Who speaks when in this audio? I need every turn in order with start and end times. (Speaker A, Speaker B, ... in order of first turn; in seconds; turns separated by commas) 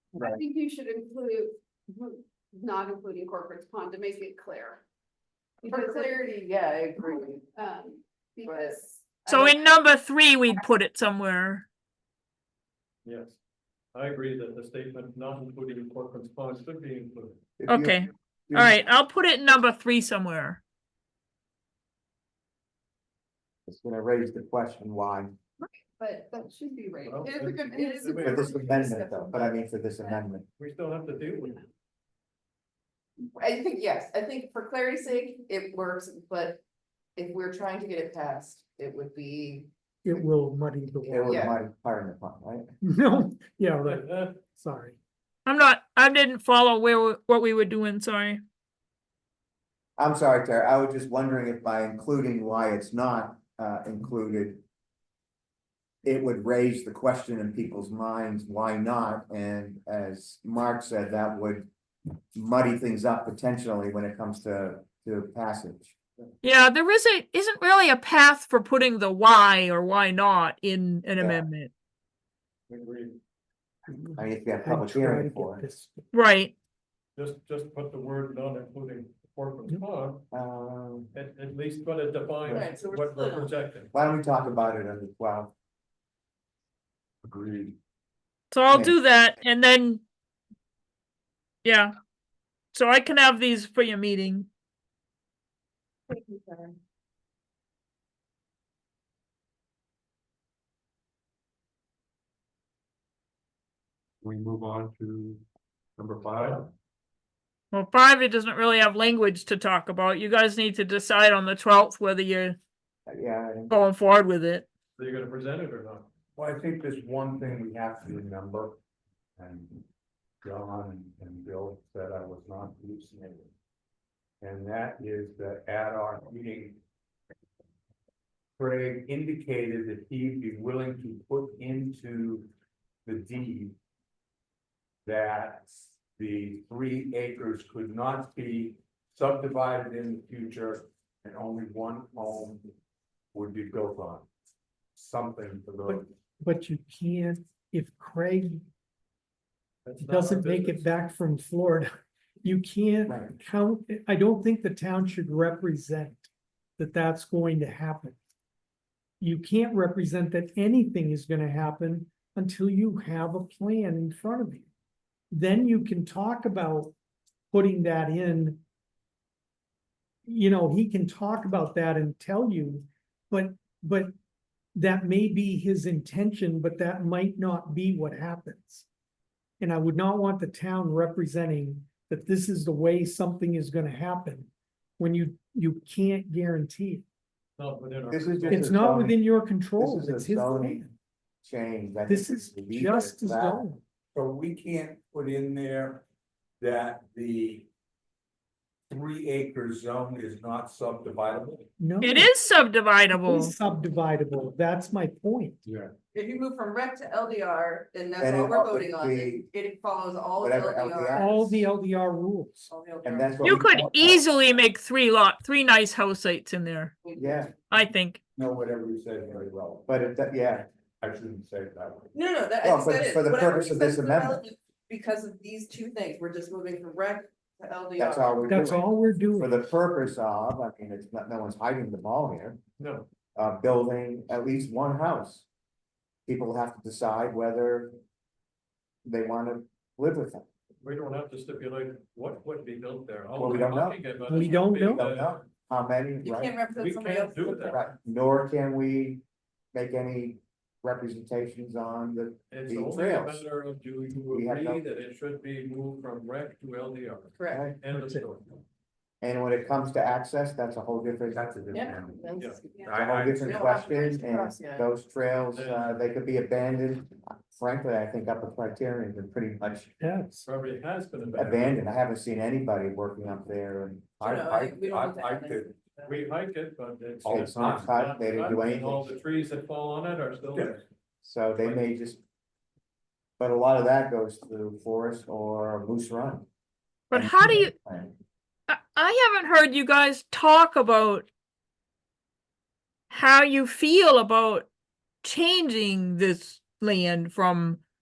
Speaker A: 0.1-4.8, Speaker A: 5.6-6.4, Speaker B: 5.6-7.4, Speaker A: 7.0-9.6, Speaker B: 8.4-8.8, Speaker C: 9.3-11.7, Speaker D: 13.0-13.4, Speaker D: 13.9-17.4, Speaker E: 17.6-18.8, Speaker C: 17.7-20.6, Speaker E: 23.7-25.4, Speaker A: 25.6-30.2, Speaker D: 27.0-28.8, Speaker E: 28.2-30.4, Speaker D: 30.6-31.6, Speaker B: 33.2-36.6, Speaker B: 37.1-40.3, Speaker F: 40.0-41.5, Speaker B: 41.0-41.5, Speaker E: 41.1-42.7, Speaker F: 42.8-45.0, Speaker D: 43.9-44.3, Speaker C: 45.5-48.4, Speaker E: 50.0-54.6, Speaker E: 56.0-61.7, Speaker E: 62.3-66.0, Speaker C: 66.4-71.7, Speaker E: 71.2-71.5, Speaker D: 72.7-73.2, Speaker F: 73.9-76.1, Speaker E: 74.2-75.6, Speaker C: 76.1-76.5, Speaker D: 77.2-80.2, Speaker E: 80.3-81.1, Speaker D: 81.1-83.9, Speaker B: 82.5-83.5, Speaker E: 83.9-85.5, Speaker G: 87.2-87.8, Speaker C: 88.5-90.0, Speaker E: 88.7-89.0, Speaker C: 91.6-91.9, Speaker C: 92.7-94.5, Speaker B: 96.1-96.8, Speaker G: 104.2-105.4, Speaker G: 106.0-106.7, Speaker D: 106.3-106.6, Speaker C: 107.7-112.6, Speaker E: 113.1-113.8, Speaker C: 113.7-114.7, Speaker D: 115.0-116.1, Speaker G: 116.3-118.8, Speaker G: 119.4-119.8, Speaker G: 120.4-123.5, Speaker G: 124.4-126.8, Speaker G: 128.6-132.5, Speaker G: 133.0-133.7, Speaker G: 135.0-142.7, Speaker G: 143.3-144.3, Speaker G: 144.9-146.1, Speaker F: 145.8-148.6, Speaker D: 149.8-150.9, Speaker F: 150.0-151.9, Speaker F: 152.4-158.2, Speaker E: 153.1-153.3, Speaker F: 159.2-164.7, Speaker F: 165.3-166.9, Speaker F: 167.5-168.6, Speaker F: 170.3-174.1, Speaker F: 174.7-178.8, Speaker F: 179.6-187.0, Speaker D: 187.6-188.8, Speaker E: 188.1-189.2, Speaker F: 188.5-190.9, Speaker E: 189.8-190.8, Speaker E: 191.4-193.7, Speaker F: 192.1-193.8, Speaker G: 194.1-196.0, Speaker G: 196.6-197.7, Speaker G: 198.9-201.7, Speaker F: 201.8-202.3, Speaker C: 202.0-203.5, Speaker F: 203.1-205.6, Speaker G: 205.6-205.9, Speaker B: 206.1-211.4, Speaker E: 208.2-209.4, Speaker E: 210.4-211.5, Speaker F: 211.1-212.7, Speaker B: 212.7-213.6, Speaker E: 213.0-214.2, Speaker C: 213.4-216.9, Speaker B: 217.0-217.5, Speaker E: 217.2-217.5, Speaker C: 217.7-218.2, Speaker G: 218.3-219.9, Speaker E: 219.9-220.7, Speaker G: 221.0-222.1, Speaker B: 222.1-228.6, Speaker E: 222.6-224.4, Speaker E: 228.0-232.6, Speaker F: 228.4-229.7, Speaker D: 232.8-233.1, Speaker E: 233.3-235.4, Speaker E: 236.3-237.9, Speaker E: 239.0-240.4, Speaker D: 240.8-245.4, Speaker E: 243.3-244.0, Speaker F: 244.3-245.1, Speaker E: 244.8-246.6, Speaker B: 246.2-247.8, Speaker D: 246.7-247.8, Speaker E: 247.6-253.4, Speaker D: 252.5-258.5, Speaker E: 254.3-254.8, Speaker B: 257.3-257.7, Speaker E: 257.5-257.8, Speaker F: 257.9-258.3, Speaker E: 259.2-261.4, Speaker G: 261.3-263.7, Speaker B: 261.7-262.8, Speaker D: 262.4-262.6, Speaker E: 262.9-269.9, Speaker B: 263.4-264.9, Speaker D: 265.5-265.9, Speaker F: 270.0-270.5, Speaker D: 270.4-271.8, Speaker E: 271.3-274.1, Speaker G: 274.2-275.8, Speaker B: 274.2-275.6, Speaker D: 276.0-280.8, Speaker E: 277.2-279.1, Speaker G: 277.2-277.9, Speaker G: 280.5-280.8, Speaker E: 281.2-282.2, Speaker D: 281.6-281.9, Speaker E: 283.4-286.4, Speaker C: 287.1-287.7, Speaker E: 287.1-288.1, Speaker C: 288.7-291.3, Speaker C: 293.1-294.7, Speaker C: 295.2-297.8